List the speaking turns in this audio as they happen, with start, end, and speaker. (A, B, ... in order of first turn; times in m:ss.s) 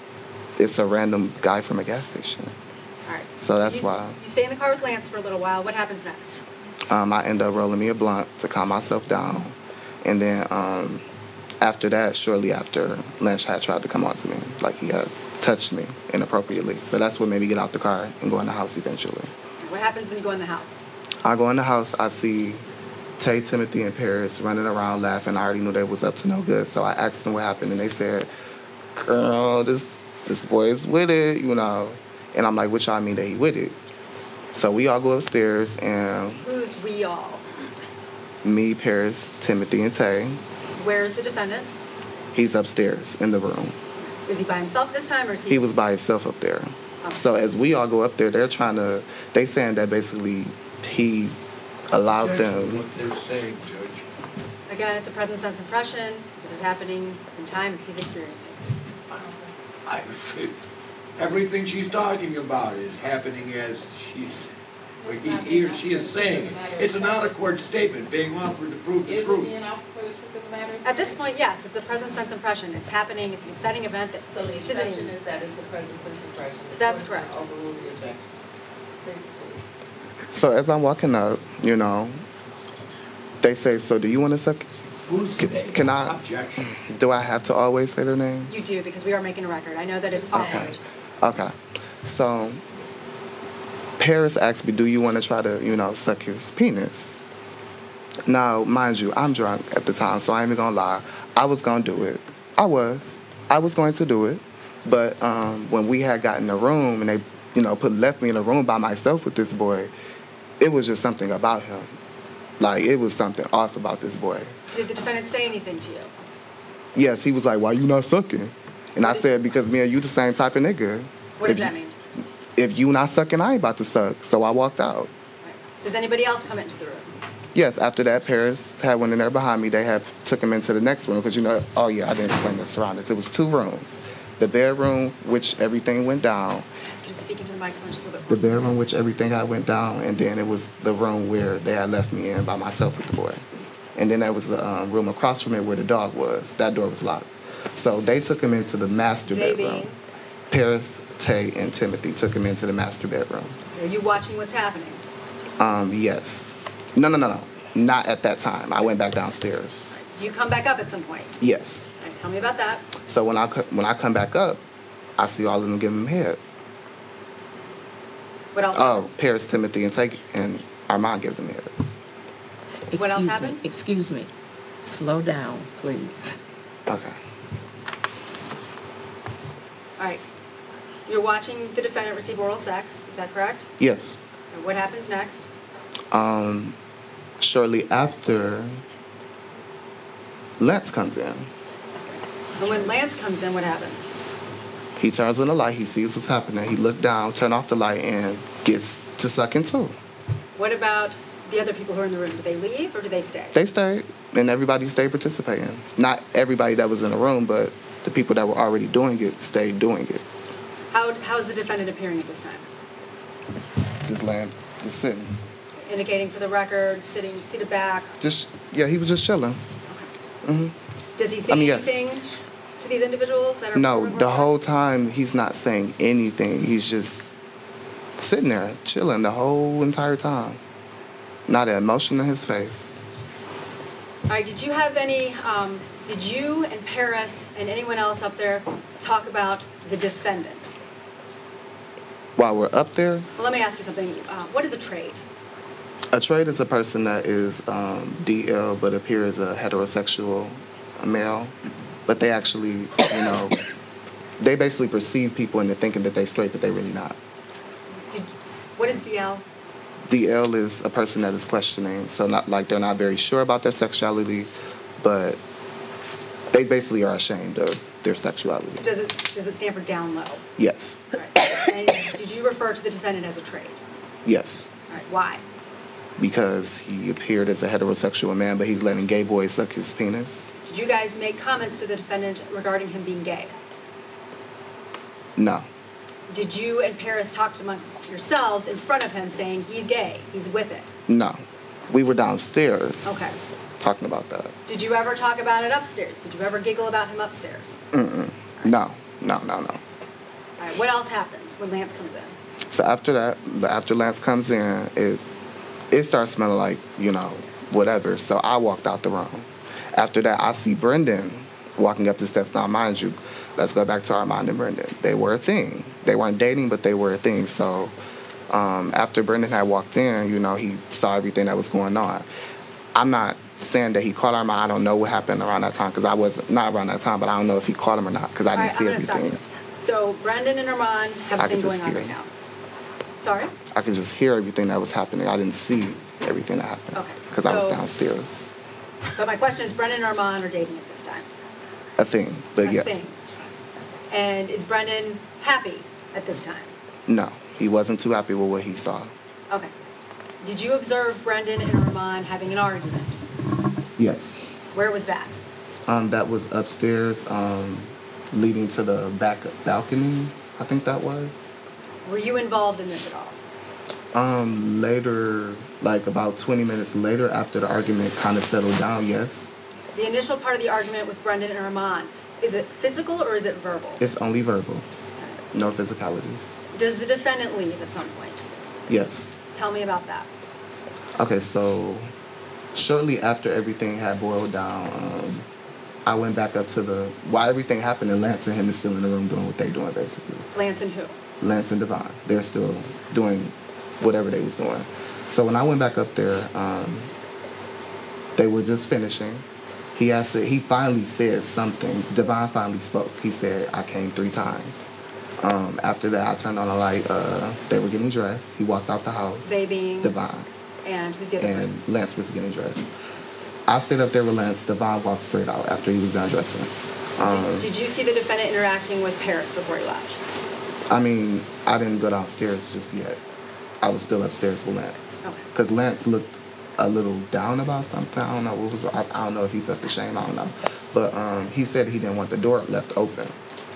0:00.6-0:02.5 A
0:03.0-0:06.4 B
0:03.4-0:04.2 A
0:06.9-0:11.0 A
0:11.6-0:19.3 A
0:19.6-0:20.8 B
0:21.2-0:22.6 A
0:23.2-0:28.3 A
0:28.9-0:33.8 A
0:34.5-0:36.4 A
0:36.4-0:37.4 B
0:38.4-0:40.4 A
0:40.8-0:41.7 B
0:42.3-0:43.8 A
0:44.0-0:45.6 B
0:45.5-0:51.4 A
0:51.9-0:52.8 A
0:52.1-0:54.0 C
0:54.7-0:58.6 B
0:59.1-0:59.5 D
0:59.8-1:00.5 C
1:01.2-1:09.5 C
1:05.0-1:07.4 D
1:09.0-1:11.2 D
1:10.8-1:15.1 B
1:14.3-1:18.4 D
1:16.8-1:17.4 B
1:19.0-1:19.6 D
1:20.3-1:22.2 A
1:23.4-1:24.7 A
1:25.1-1:26.8 C
1:25.4-1:28.7 A
1:28.5-1:30.8 B
1:30.1-1:30.8 D
1:30.3-1:32.6 A
1:34.0-1:37.2 A
1:38.2-1:49.9 A
1:50.6-1:52.0 A
1:52.6-1:54.5 A
1:54.7-1:56.1 B
1:56.9-2:01.7 A
2:01.4-2:02.0 B
2:02.6-2:05.1 A
2:05.4-2:07.2 B
2:07.5-2:16.7 A
2:16.9-2:18.6 B
2:18.3-2:23.4 A
2:23.9-2:29.9 A
2:29.3-2:30.0 B
2:30.5-2:33.6 A
2:33.7-2:35.0 B
2:35.6-2:39.9 A
2:39.9-2:41.4 B
2:41.4-2:41.9 A
2:42.0-2:42.8 B
2:43.0-2:44.6 A
2:45.2-2:46.4 A
2:48.5-2:49.1 B
2:48.7-2:51.7 A
2:52.9-2:56.3 E
2:52.9-2:53.6 B
2:56.9-2:57.2 A
3:00.0-3:00.2 B
3:01.1-3:03.7 B
3:03.8-3:04.2 A
3:04.5-3:05.5 B
3:06.1-3:06.8 A
3:07.4-3:08.8 A
3:10.6-3:11.5 A
3:12.1-3:14.1 B
3:12.6-3:12.9 A
3:15.0-3:19.9 A
3:20.6-3:23.5 B
3:23.5-3:30.2 A
3:30.9-3:32.7 B
3:34.0-3:35.4 A
3:35.8-3:38.2 B
3:38.2-3:39.6 A
3:40.4-3:40.8 A
3:41.2-3:44.5 B
3:41.5-3:42.0 A
3:43.7-3:47.3 A
3:48.2-3:50.6 A
3:51.5-3:53.0 A
3:54.3-4:00.7 B
4:02.4-4:03.3 A
4:03.4-4:05.2 B
4:06.1-4:13.6 A
4:14.4-4:17.2 A
4:17.9-4:19.4 B
4:20.0-4:25.4 A
4:26.5-4:28.9 A
4:28.8-4:30.4 B
4:30.6-4:31.0 A
4:31.1-4:33.8 B
4:34.2-4:34.7 A
4:34.9-4:35.4 B
4:36.2-4:40.5 A
4:40.6-4:43.5 B
4:45.4-4:45.7 A
4:46.3-4:50.9 B
4:51.1-4:53.2 A
4:53.0-4:53.4 B
4:53.8-4:54.5 A
4:54.7-4:57.8 B
4:57.9-4:59.8 A
5:00.6-5:02.4 B
5:02.7-5:05.2 A
5:05.9-5:17.9 A
5:18.5-5:22.3 A
5:22.9-5:29.4 A
5:28.5-5:32.3 B
5:31.3-5:32.2 A
5:33.2-5:33.5 B
5:33.7-5:38.5 A
5:36.9-5:37.8 B
5:39.2-5:41.3 B
5:42.0-5:43.0 A
5:42.6-5:43.2 B
5:44.1-5:46.7 B
5:47.1-5:49.1 A
5:50.4-5:53.2 B
5:54.0-5:54.4 A
5:54.7-5:55.4 B
5:55.8-6:01.6 A
6:02.0-6:03.4 B
6:04.1-6:09.6 A
6:09.9-6:14.0 B
6:14.0-6:14.9 A
6:15.5-6:16.6 A
6:16.7-6:18.4 B
6:18.9-6:19.3 A
6:19.5-6:20.3 B
6:21.2-6:22.1 A
6:22.7-6:25.5 A
6:26.0-6:30.5 A
6:30.5-6:31.2 B
6:31.4-6:37.1 A
6:38.4-6:50.5 A
6:49.4-6:50.2 B
6:50.8-6:51.7 B
6:51.4-6:52.9 A
6:53.7-6:57.7 A
6:57.2-7:00.2 B
7:00.9-7:03.2 A
7:03.8-7:13.4 A